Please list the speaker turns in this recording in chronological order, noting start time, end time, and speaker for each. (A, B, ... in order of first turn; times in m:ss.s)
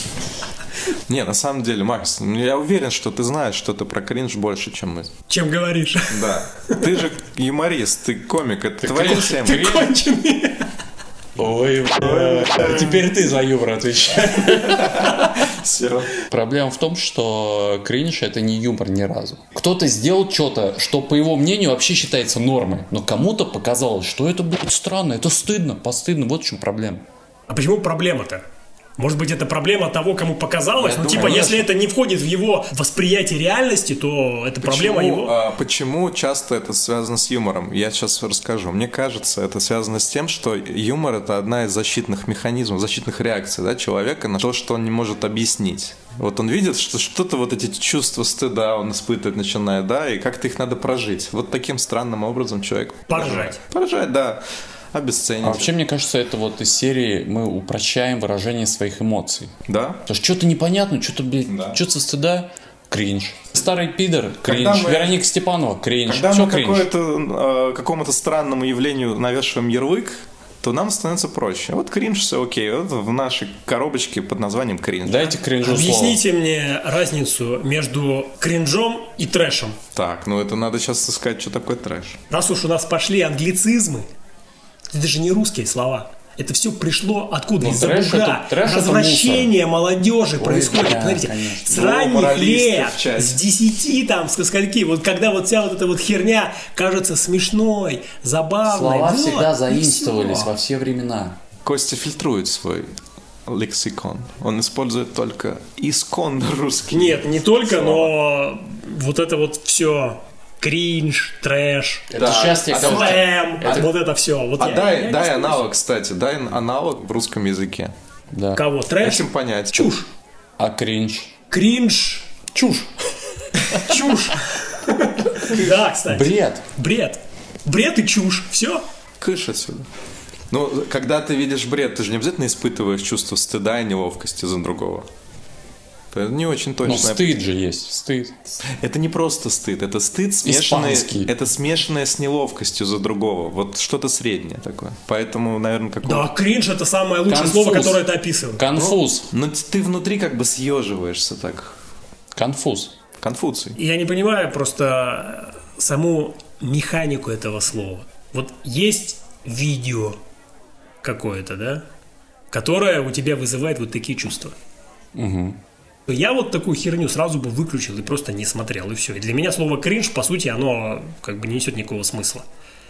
0:00.9-0:05.1 A
0:05.3-0:06.9 B
0:06.1-0:09.7 A
0:08.8-0:09.9 C
0:09.0-0:10.6 B
0:11.4-0:15.2 C
0:12.0-0:13.1 A
0:14.6-0:16.1 A
0:16.2-0:27.0 C
0:27.5-0:28.4 B
0:29.0-0:35.3 B
0:30.8-0:31.7 A
0:31.1-0:31.4 C
0:34.6-0:55.7 A
0:53.1-0:53.6 B
0:55.4-0:59.5 C
0:59.7-1:00.0 A
1:00.0-1:06.9 C
1:01.4-1:01.8 A
1:04.4-1:05.2 A
1:06.0-1:15.4 A
1:15.0-1:16.2 C
1:15.6-1:19.8 B
1:19.9-1:22.2 A
1:22.3-1:24.1 B
1:24.9-1:40.5 B
1:27.6-1:29.5 C
1:30.4-1:31.7 C
1:31.7-1:33.4 A
1:38.6-1:41.4 C
1:41.6-1:42.9 A
1:43.5-1:48.1 A
1:46.9-1:52.1 B
1:52.1-1:53.7 C
1:52.1-1:53.9 A
1:52.7-1:55.7 B
1:54.6-1:57.9 A
1:58.3-1:58.6 C
1:58.5-2:00.1 B
1:59.0-1:59.9 A
2:00.6-2:01.3 C
2:01.5-2:02.3 B
2:02.5-2:02.9 C
2:03.7-2:08.8 B
2:05.4-2:05.8 A
2:06.1-2:06.6 C
2:09.2-2:09.8 A
2:10.5-2:15.1 A
2:16.1-2:17.4 A
2:16.8-2:18.5 C
2:18.8-2:26.3 A
2:20.4-2:21.3 C
2:26.0-2:28.6 B
2:27.3-2:29.3 C
2:28.7-2:31.7 A
2:32.3-2:32.9 C
2:33.2-2:33.8 A
2:33.7-2:40.2 B
2:41.0-2:41.8 B
2:42.5-2:44.6 B
2:45.1-2:45.6 C
2:46.1-2:52.4 B